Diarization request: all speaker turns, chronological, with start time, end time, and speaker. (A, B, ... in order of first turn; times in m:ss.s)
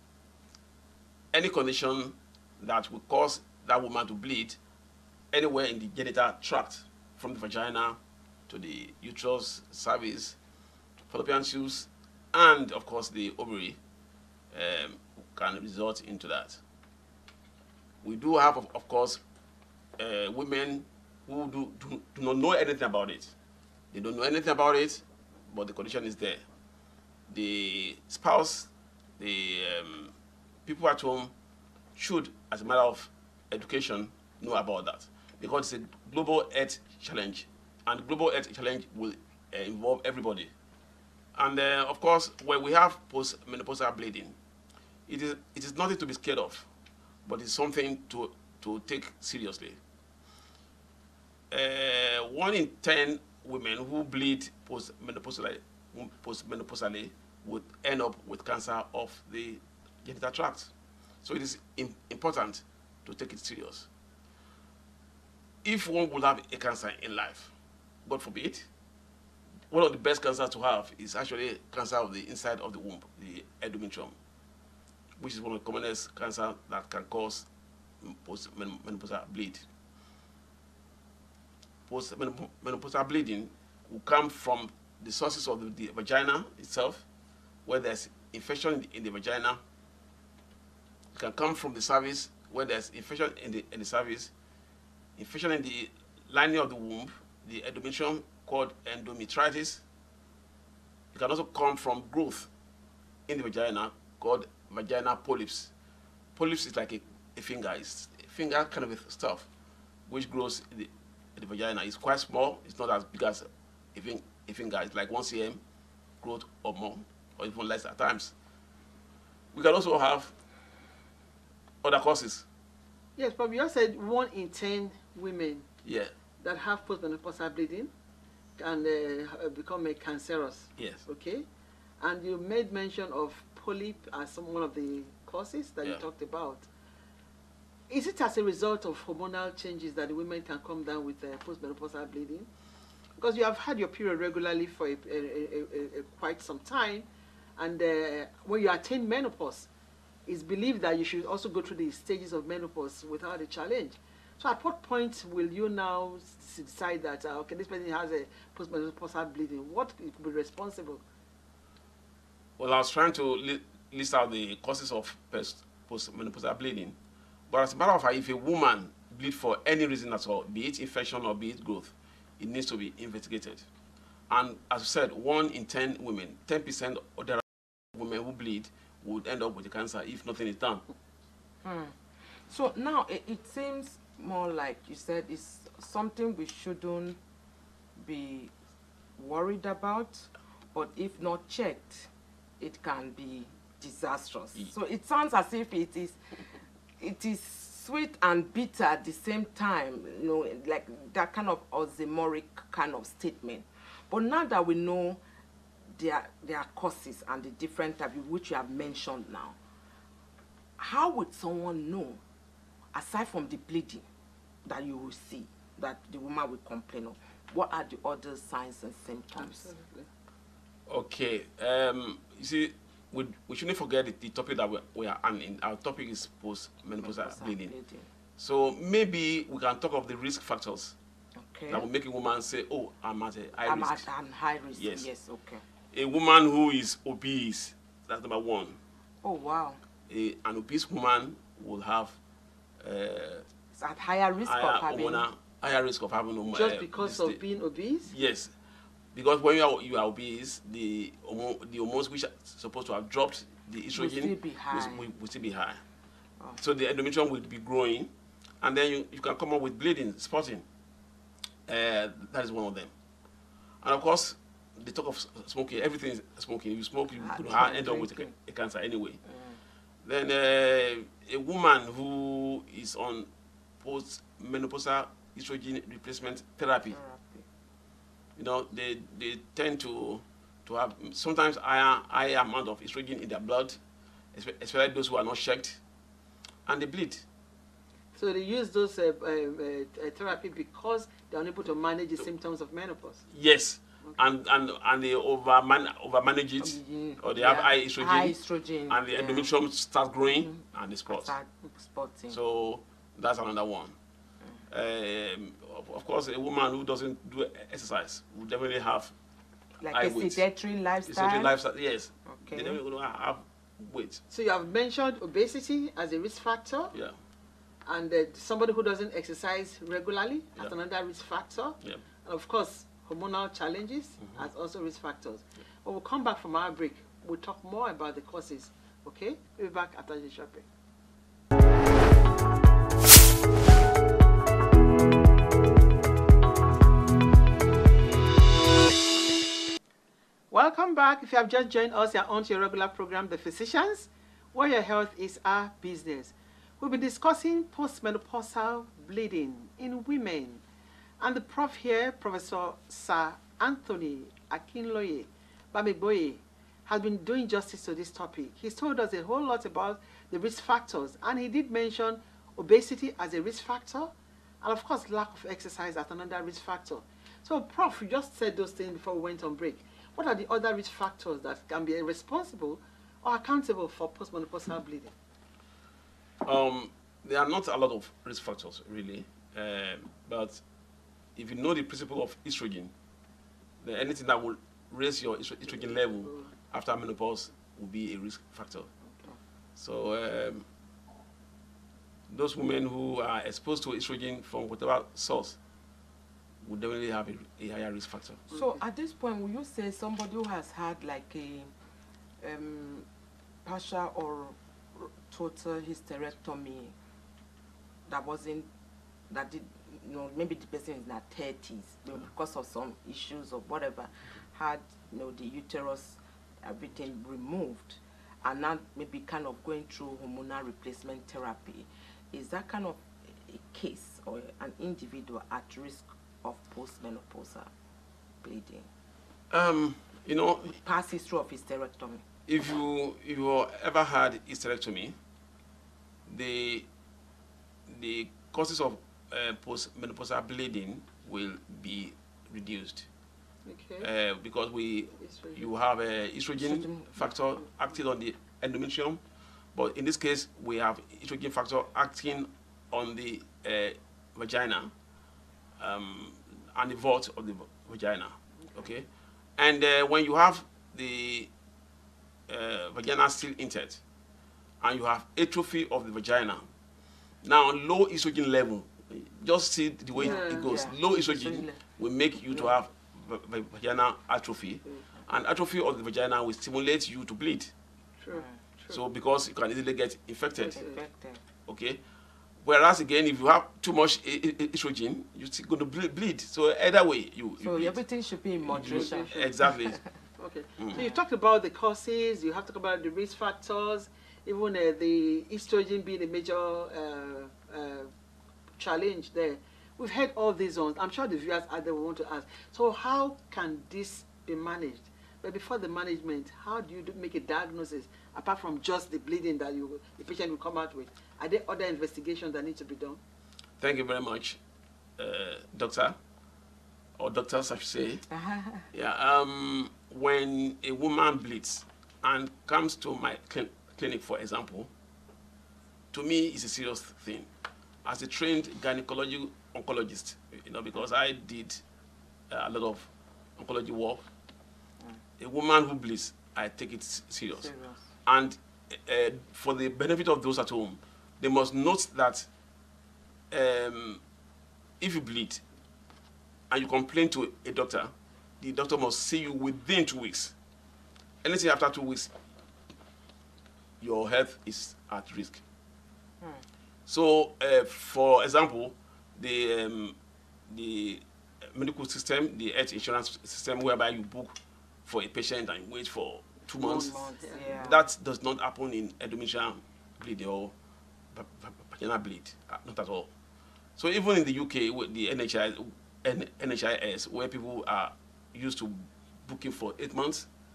0:01.3-0:04.6 A
0:05.3-0:08.0 A
0:08.5-0:10.4 A
0:11.1-0:13.8 A
0:14.5-0:16.6 A
0:18.0-0:19.2 A
0:20.0-0:23.3 A
0:23.9-0:26.4 A
0:27.3-0:30.1 A
0:30.6-0:31.3 A
0:32.0-0:40.5 A
0:41.4-0:44.3 A
0:45.1-0:46.6 A
0:47.2-0:49.8 A
0:51.5-1:00.7 A
1:01.2-1:03.9 A
1:05.6-1:07.5 A
1:08.0-1:08.7 A
1:09.7-1:14.1 A
1:15.2-1:17.5 A
1:18.0-1:19.6 A
1:21.9-1:27.0 A
1:27.6-1:29.6 A
1:31.1-1:34.3 A
1:35.2-1:39.8 A
1:41.1-1:42.5 A
1:43.3-1:45.7 A
1:46.4-1:49.5 A
1:50.1-1:55.6 A
1:56.2-1:58.3 A
1:59.5-2:00.3 A
2:01.8-2:02.4 A
2:03.2-2:05.6 B
2:05.8-2:06.1 A
2:06.4-2:07.9 B
2:08.6-2:11.4 B
2:10.8-2:11.0 A
2:12.0-2:16.7 B
2:17.9-2:22.5 B
2:23.2-2:29.7 B
2:30.2-2:41.0 B
2:42.6-2:47.0 A
2:47.5-2:53.6 A
2:54.3-3:00.8 A
3:01.6-3:07.2 C
3:08.0-3:08.5 C
3:09.2-3:25.2 C
3:26.0-3:29.6 C
3:30.8-3:32.2 C
3:32.9-3:34.0 C
3:34.6-3:39.7 C
3:39.4-3:40.1 B
3:40.9-3:47.7 A
3:47.0-3:48.1 C
3:48.4-3:50.9 A
3:51.4-3:51.9 C
3:51.7-3:54.0 A
3:53.6-3:55.6 C
3:54.8-3:55.1 A
3:55.9-3:58.8 A
3:59.2-3:59.8 C
4:00.1-4:02.2 A
4:02.8-4:03.4 A
4:03.8-4:05.2 C
4:04.4-4:07.4 A
4:06.5-4:08.1 B
4:08.1-4:08.5 A
4:09.1-4:15.8 A
4:13.9-4:15.0 C
4:16.6-4:20.6 A
4:21.7-4:22.9 A
4:23.8-4:29.2 A
4:27.2-4:28.3 C
4:29.3-4:29.6 C
4:30.0-4:33.3 A
4:33.8-4:37.0 A
4:36.9-4:37.4 C
4:38.4-4:43.8 A
4:44.3-4:45.8 A
4:46.6-4:47.2 A
4:48.1-4:53.2 B
4:53.3-4:58.4 A
4:56.6-4:59.5 C
4:58.9-5:01.4 A
5:00.4-5:02.4 C
5:02.3-5:03.9 A
5:04.7-5:09.1 A
5:09.8-5:11.5 C
5:09.9-5:10.4 A
5:11.0-5:14.2 A
5:12.3-5:12.8 C
5:14.3-5:16.9 B
5:17.8-5:30.6 B
5:40.5-5:50.6 B
5:51.2-6:15.1 B
6:16.4-6:20.6 A
6:21.4-6:22.9 A
6:23.8-6:28.9 A
6:29.8-6:30.6 A
6:32.3-6:35.6 A
6:36.6-6:38.5 A
6:38.5-6:41.7 C
6:42.4-6:43.1 C
6:43.6-6:46.9 C
6:48.1-6:48.7 C
6:49.3-7:07.7 C
7:08.4-7:08.9 C
7:09.5-7:10.8 A
7:10.7-7:12.2 C
7:12.5-7:15.1 A
7:16.3-7:16.8 A
7:17.9-7:23.1 A
7:23.6-7:24.1 B
7:24.0-7:29.2 A
7:25.2-7:25.6 B
7:26.6-7:27.3 C
7:29.7-7:34.9 A
7:35.8-7:39.0 A
7:39.6-7:41.5 A
7:42.5-7:44.0 A
7:44.8-7:46.6 A
7:47.4-7:57.7 A
7:50.1-7:51.8 C
7:50.2-7:50.7 B
7:58.2-7:59.0 B
7:58.3-7:58.6 C
7:58.9-8:00.8 A
8:00.6-8:01.0 B
8:00.8-8:01.4 C
8:01.7-8:02.0 A
8:02.6-8:08.0 A
8:07.6-8:10.0 C
8:08.6-8:10.0 A
8:08.8-8:09.5 B
8:10.4-8:18.1 B
8:18.8-8:33.2 B
8:33.8-8:34.6 A
8:35.2-8:36.2 A
8:37.2-8:38.2 A
8:38.3-8:38.9 C
8:38.9-8:44.9 A
8:46.1-8:47.5 A
8:48.0-8:51.8 A
8:52.5-8:54.3 A
8:55.4-8:57.7 A
8:57.5-8:58.1 C
8:58.2-9:02.5 A
9:03.5-9:04.2 A
9:05.0-9:05.6 A
9:06.7-9:10.5 A
9:11.4-9:12.3 A
9:14.0-9:15.6 A
9:17.1-9:20.1 A
9:20.7-9:30.7 A
9:26.8-9:27.7 B
9:26.8-9:28.0 C
9:31.3-9:33.3 A
9:34.0-9:40.5 A